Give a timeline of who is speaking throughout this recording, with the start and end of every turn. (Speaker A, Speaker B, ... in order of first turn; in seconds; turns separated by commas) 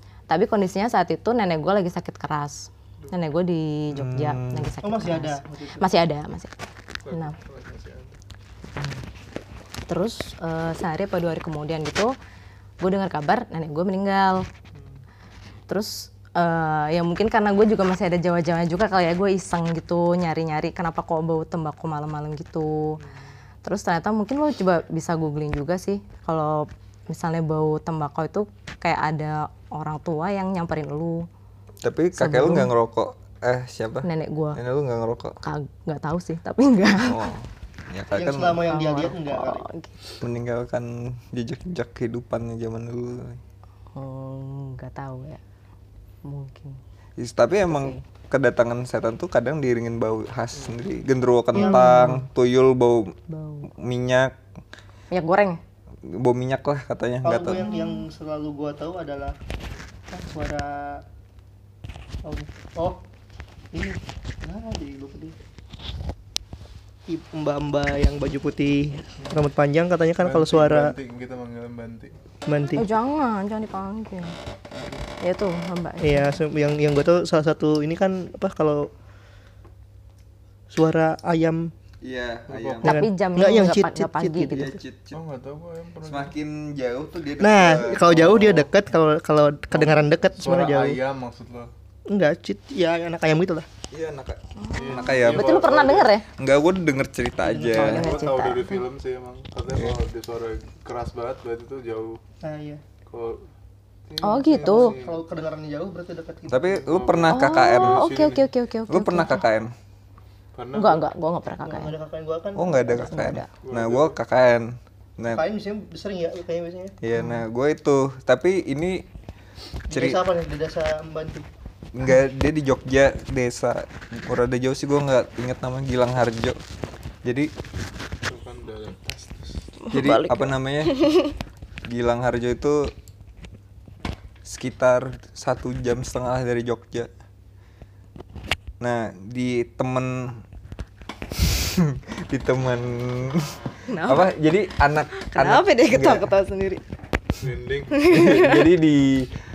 Speaker A: 0.3-6.5, Speaker B: 3.9-4.7, Speaker C: 4.8-5.9, Speaker D: 7.0-8.2, Speaker A: 8.8-9.0, Speaker A: 9.9-12.1, Speaker A: 12.8-14.5, Speaker A: 15.7-22.9, Speaker D: 23.0-23.3, Speaker A: 23.6-31.2, Speaker B: 31.8-35.4, Speaker A: 32.1-32.7, Speaker A: 34.0-34.6, Speaker A: 35.4-37.2, Speaker B: 37.0-38.6, Speaker C: 38.1-39.6, Speaker A: 38.7-40.0, Speaker B: 40.2-43.4, Speaker A: 43.9-45.4, Speaker A: 46.2-46.8, Speaker B: 47.2-53.1, Speaker A: 47.6-48.0, Speaker A: 51.5-52.2, Speaker A: 53.3-53.7, Speaker B: 53.7-54.3, Speaker A: 55.1-55.6, Speaker B: 56.0-57.7, Speaker C: 57.2-59.4, Speaker A: 57.5-58.0, Speaker C: 60.1-61.0, Speaker C: 62.2-63.0, Speaker C: 63.7-65.3, Speaker C: 67.1-71.0, Speaker D: 69.2-69.5, Speaker D: 70.2-72.1, Speaker C: 72.5-72.8, Speaker A: 72.7-74.3, Speaker A: 75.2-76.4, Speaker C: 76.0-78.9, Speaker C: 80.7-81.7, Speaker B: 82.0-83.1, Speaker D: 82.5-82.8, Speaker A: 82.8-84.7, Speaker C: 82.8-84.8, Speaker B: 84.5-85.2, Speaker D: 85.1-86.3, Speaker B: 86.0-88.6, Speaker C: 87.4-91.0, Speaker D: 88.3-88.6, Speaker D: 89.8-91.7, Speaker C: 92.1-93.7, Speaker B: 93.9-95.6, Speaker A: 94.6-96.2, Speaker D: 94.7-96.1, Speaker B: 96.4-98.1, Speaker A: 97.5-98.8, Speaker C: 97.5-98.0, Speaker D: 97.7-102.2, Speaker B: 99.7-100.0, Speaker C: 102.4-102.8, Speaker D: 103.1-103.4, Speaker D: 104.1-105.2, Speaker A: 104.2-104.9, Speaker C: 104.4-107.0, Speaker B: 106.5-108.1, Speaker D: 106.9-108.5, Speaker A: 107.3-109.4, Speaker B: 108.9-109.7, Speaker D: 110.5-111.1, Speaker A: 110.7-111.9, Speaker C: 111.6-113.4, Speaker B: 112.5-115.4, Speaker A: 112.9-113.5, Speaker D: 113.6-114.2, Speaker C: 115.3-116.9, Speaker B: 117.0-119.1, Speaker B: 119.9-120.2, Speaker C: 119.9-121.5, Speaker B: 121.9-126.6, Speaker B: 127.2-127.5, Speaker D: 128.2-129.6, Speaker A: 129.8-131.3, Speaker B: 129.9-131.0, Speaker B: 131.9-132.9, Speaker B: 134.4-137.1, Speaker B: 138.8-140.4, Speaker B: 141.3-146.3, Speaker A: 143.9-144.4, Speaker A: 145.1-146.8, Speaker D: 147.4-148.0, Speaker A: 147.9-148.7, Speaker B: 148.1-149.3